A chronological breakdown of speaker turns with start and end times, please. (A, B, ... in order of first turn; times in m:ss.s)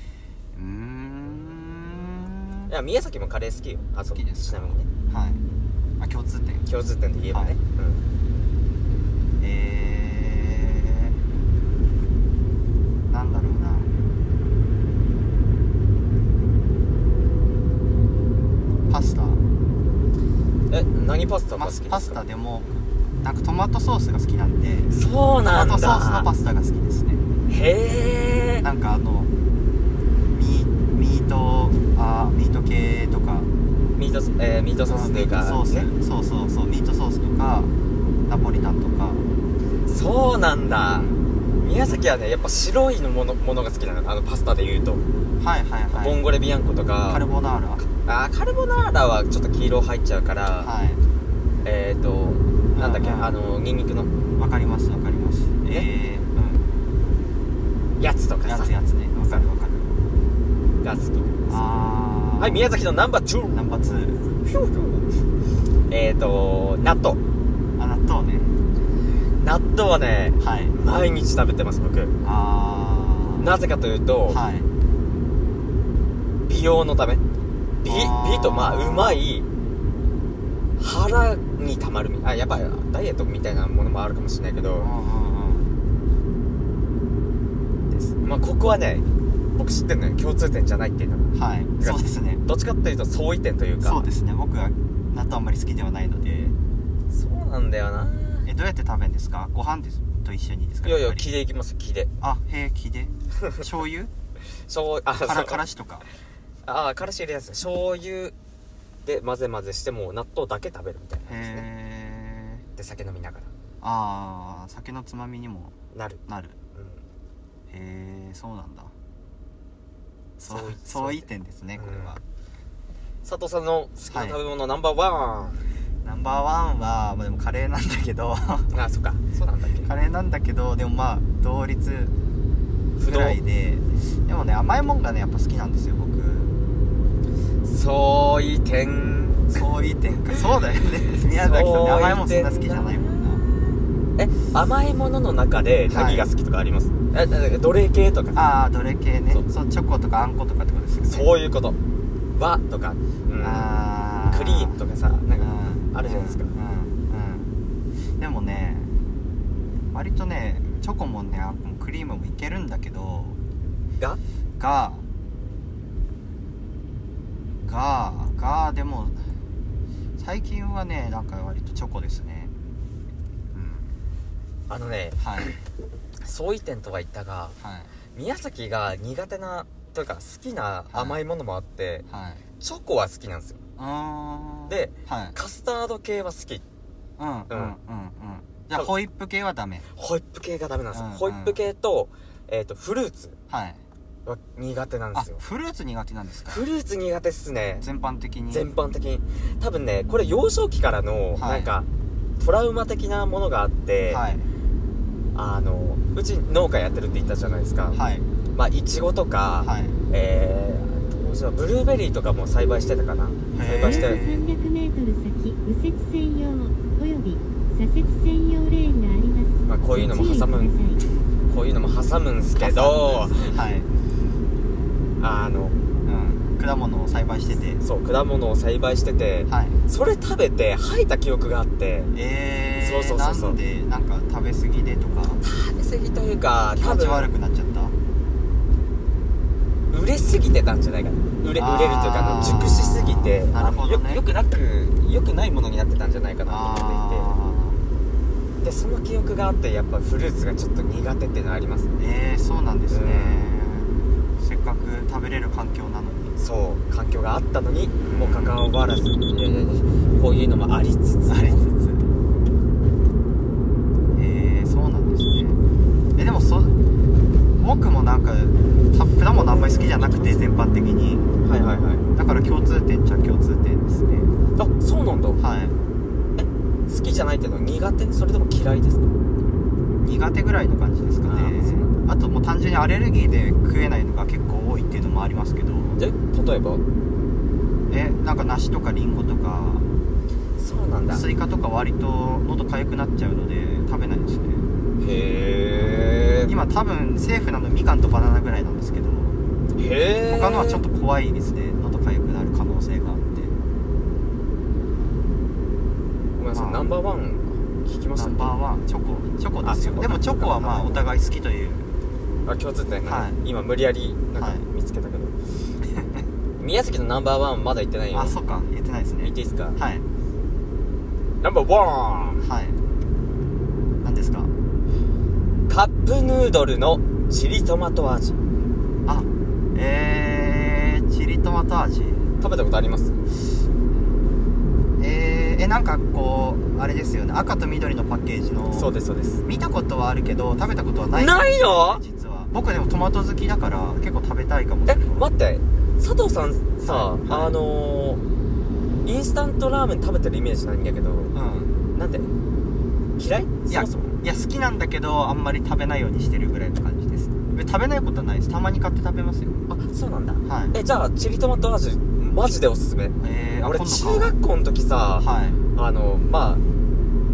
0:00.5-0:02.7 A
0:02.7-0:04.9 B
0:04.1-0:05.4 A
0:06.0-0:06.7 A
0:06.7-0:08.0 B
0:07.3-0:07.6 A
0:09.4-0:11.2 A
0:13.1-0:13.9 A
0:18.9-0:19.4 A
0:20.7-0:22.2 B
0:21.6-0:22.7 A
0:23.2-0:24.9 A
0:24.9-0:26.3 B
0:25.5-0:27.2 A
0:27.5-0:28.6 B
0:28.6-0:29.3 A
0:30.3-0:33.5 A
0:34.0-0:35.9 B
0:34.9-0:37.7 A
0:38.3-0:39.3 A
0:39.9-0:41.1 B
0:40.9-0:41.2 A
0:41.6-0:45.0 B
0:45.4-0:46.2 A
0:45.9-0:47.2 B
0:47.1-0:47.8 A
0:47.8-0:50.7 B
0:50.6-0:51.0 A
0:51.6-0:54.1 B
0:52.7-0:53.4 A
0:54.4-0:56.7 A
0:58.0-0:58.7 B
0:58.4-1:00.0 A
1:00.8-1:01.6 B
1:01.5-1:02.8 A
1:02.4-1:05.1 B
1:03.5-1:04.2 A
1:05.9-1:07.2 B
1:07.8-1:08.5 A
1:09.4-1:12.2 B
1:10.4-1:10.8 A
1:12.2-1:13.6 A
1:13.4-1:14.4 B
1:14.3-1:14.7 A
1:16.5-1:17.2 B
1:17.8-1:19.5 B
1:17.9-1:19.2 A
1:20.8-1:24.9 B
1:24.8-1:25.7 A
1:27.9-1:34.1 B
1:31.3-1:32.4 A
1:33.8-1:36.6 A
1:37.1-1:38.5 B
1:38.5-1:41.3 A
1:40.8-1:42.1 B
1:42.2-1:44.1 A
1:44.7-1:45.6 B
1:45.2-1:46.1 A
1:46.6-1:48.4 B
1:49.0-1:51.6 B
1:51.3-1:52.6 A
1:52.8-1:53.5 B
1:53.8-1:55.7 A
1:55.9-1:56.2 B
1:56.3-1:56.6 A
1:56.8-1:57.0 B
1:57.7-1:58.9 A
2:00.4-2:02.2 A
2:00.5-2:02.2 B
2:03.2-2:05.6 B
2:04.1-2:04.4 A
2:06.0-2:08.8 A
2:08.7-2:09.9 B
2:09.8-2:12.2 A
2:13.0-2:13.4 B
2:13.1-2:16.6 A
2:17.6-2:19.6 B
2:19.5-2:23.4 A
2:21.3-2:28.4 B
2:25.9-2:26.3 A
2:28.4-2:31.3 A
2:31.1-2:31.8 B
2:32.3-2:33.8 B
2:33.4-2:34.8 A
2:34.3-2:36.5 B
2:35.4-2:37.0 A
2:37.1-2:37.5 B
2:38.2-2:38.9 A
2:39.9-2:43.4 A
2:44.6-2:45.0 A
2:47.6-2:49.2 A
2:50.2-2:52.5 A
2:53.5-2:54.0 A
2:54.7-2:55.6 B
2:55.2-2:55.6 A
2:56.2-2:57.6 B
2:57.6-2:57.9 A
2:58.2-3:02.1 B
3:00.9-3:01.2 A
3:02.1-3:02.4 A
3:02.6-3:03.6 B
3:03.8-3:05.4 A
3:04.7-3:06.6 B
3:07.2-3:09.9 A
3:09.9-3:13.4 B
3:10.9-3:11.6 A
3:13.5-3:13.8 A
3:14.3-3:15.4 B
3:15.1-3:16.6 A
3:16.5-3:17.8 B
3:17.8-3:18.7 A
3:18.5-3:21.9 B
3:21.4-3:21.8 A
3:22.4-3:24.2 B
3:24.1-3:24.5 A
3:25.4-3:28.0 B
3:27.9-3:28.3 A
3:28.6-3:34.2 B
3:29.6-3:30.0 A
3:33.5-3:34.7 A
3:34.7-3:37.4 C
3:37.9-3:39.4 C
3:39.6-3:40.9 B
3:41.5-3:43.5 B
3:42.6-3:43.9 A
3:45.2-3:45.8 B
3:46.1-3:47.8 A
3:47.8-3:52.1 B
3:49.5-3:49.8 A
3:52.1-3:55.4 A
3:52.8-3:53.6 B
3:55.4-3:57.3 B
3:56.8-3:58.0 A
3:59.9-4:07.3 B
4:01.6-4:04.2 A
4:06.5-4:07.8 A
4:08.6-4:11.9 B
4:12.0-4:16.4 A
4:12.9-4:13.5 B
4:16.4-4:21.6 B
4:18.0-4:18.6 A
4:21.3-4:22.1 A
4:24.1-4:25.6 A
4:26.2-4:26.8 A
4:27.6-4:31.2 A
4:29.3-4:30.4 B
4:31.4-4:32.0 B
4:32.2-4:34.3 A
4:34.6-4:35.4 B
4:35.4-4:35.8 A
4:36.4-4:39.1 B
4:40.0-4:46.0 A
4:41.3-4:42.0 B
4:46.0-4:46.8 B
4:47.9-4:49.9 A
4:50.6-4:51.2 B
4:51.1-4:54.7 A
4:55.0-4:56.5 B
4:56.5-4:59.4 A
4:59.8-5:00.8 B
5:00.3-5:03.6 A
5:06.4-5:08.6 B
5:06.5-5:06.9 A
5:08.2-5:11.9 A
5:09.6-5:11.0 B
5:12.4-5:15.4 B
5:13.1-5:13.4 A
5:14.3-5:14.6 A
5:16.6-5:18.4 B
5:18.1-5:20.0 A
5:19.2-5:19.8 B
5:21.4-5:22.4 B
5:22.4-5:22.8 A
5:24.0-5:24.5 A
5:25.7-5:28.4 B
5:29.1-5:32.3 A
5:32.4-5:33.2 B
5:35.0-5:38.9 A
5:38.7-5:39.4 B
5:39.4-5:45.3 A
5:41.1-5:42.0 B
5:44.9-5:48.2 B
5:46.8-5:47.6 A
5:49.0-5:51.3 B
5:51.3-5:51.8 A
5:51.9-5:52.3 B
5:53.2-5:54.2 B
5:53.7-5:59.6 A
5:59.7-6:06.6 B
6:00.4-6:00.8 A
6:03.2-6:04.4 A
6:05.2-6:05.6 A